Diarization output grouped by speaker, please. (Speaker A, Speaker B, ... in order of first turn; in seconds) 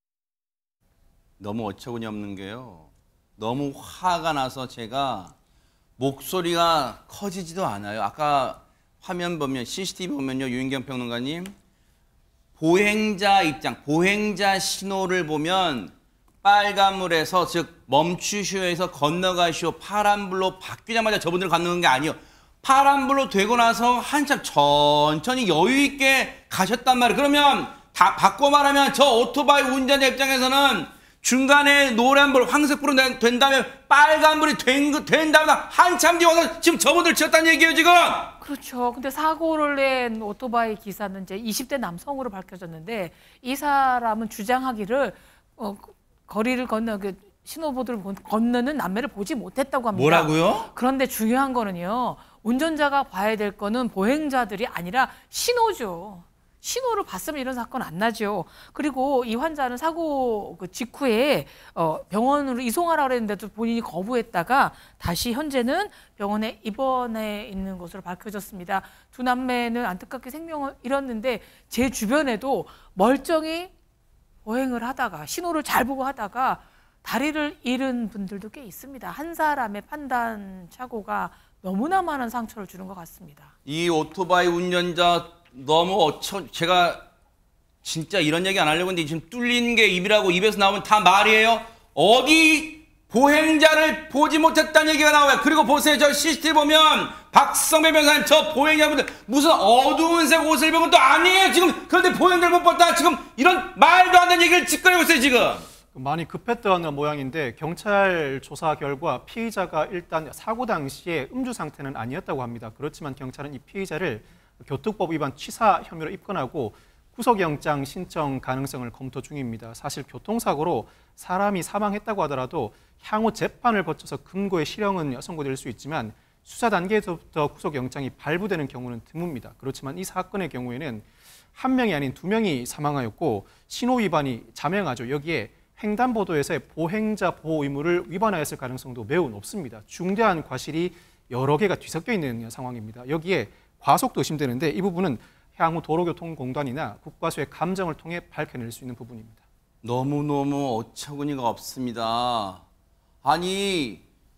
Speaker A: 1.4-5.3, 6.0-11.5, 12.6-38.4, 49.9-50.7, 83.7-87.1, 87.8-105.7, 149.8-152.6, 153.2-154.0
Speaker B: 38.4-73.7, 74.5-83.5
Speaker C: 105.9-149.4